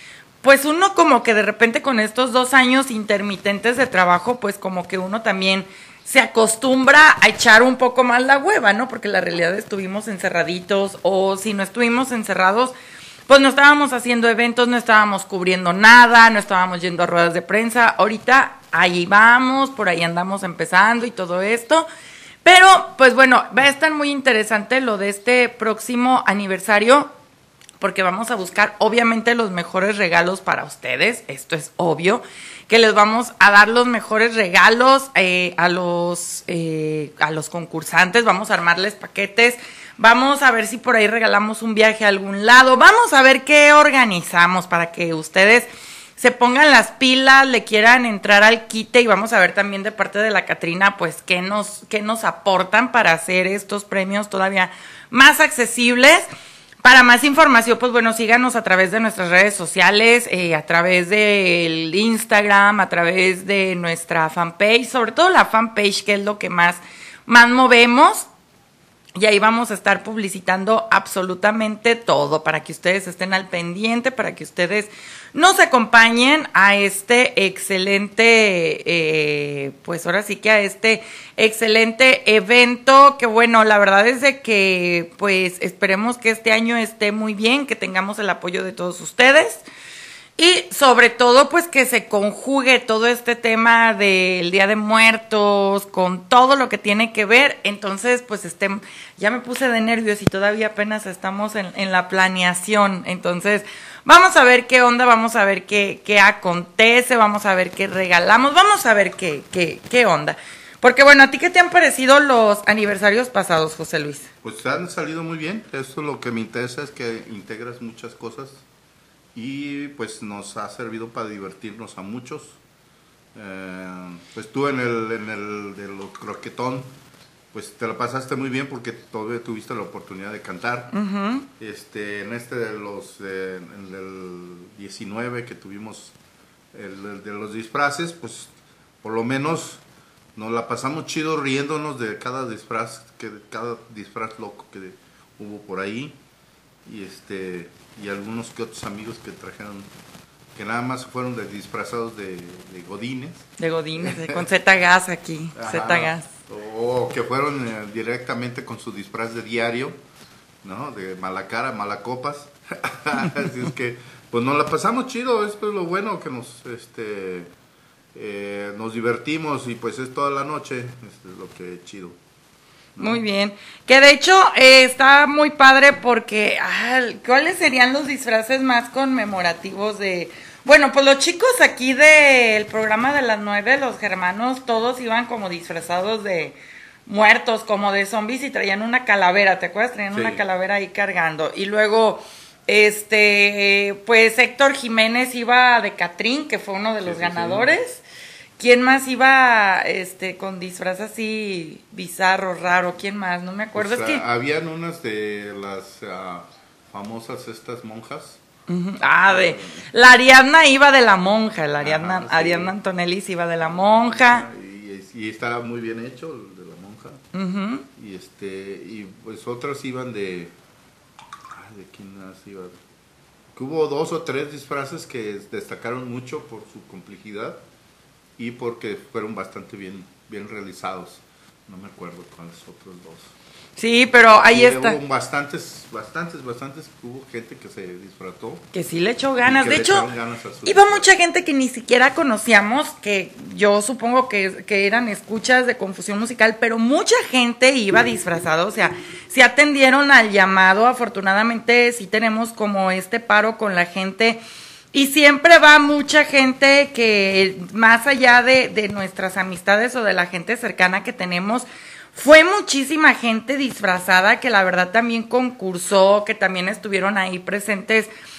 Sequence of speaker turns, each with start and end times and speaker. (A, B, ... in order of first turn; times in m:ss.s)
0:00.4-0:12.7 A
0:13.3-0:21.9 A
0:22.4-0:27.1 A
0:27.8-0:56.3 A
0:56.8-1:08.3 A
1:09.2-1:29.6 A
1:30.4-1:54.3 A
1:54.4-1:58.6 B
1:59.3-2:02.6 B
2:03.3-2:07.0 B
2:07.5-2:10.9 B
2:10.9-2:11.5 A
2:11.6-2:16.2 B
2:16.7-2:18.5 B
2:19.0-2:19.8 B
2:20.4-2:26.2 B
2:26.8-2:29.9 B
2:30.6-2:33.5 B
2:33.6-2:36.3 A
2:34.0-2:34.4 B
2:35.6-2:40.0 B
2:40.6-2:47.5 B
2:48.1-2:52.2 B
2:53.0-2:53.2 B
2:53.0-3:18.0 A
3:10.1-3:10.4 B
3:17.0-3:17.7 B
3:18.6-3:24.2 A
3:23.8-3:28.4 B
3:28.7-3:34.5 A
3:29.3-3:29.9 B
3:31.8-3:32.7 B
3:33.6-3:37.2 B
3:37.3-3:37.9 A
3:38.0-3:40.6 B
3:41.5-3:42.8 B
3:43.5-3:47.6 B
3:48.4-3:53.3 B
3:53.8-3:55.0 A
3:54.2-3:58.7 B
3:58.7-4:00.1 A
3:59.4-4:01.1 B
4:00.6-4:14.4 A
4:14.9-4:28.1 A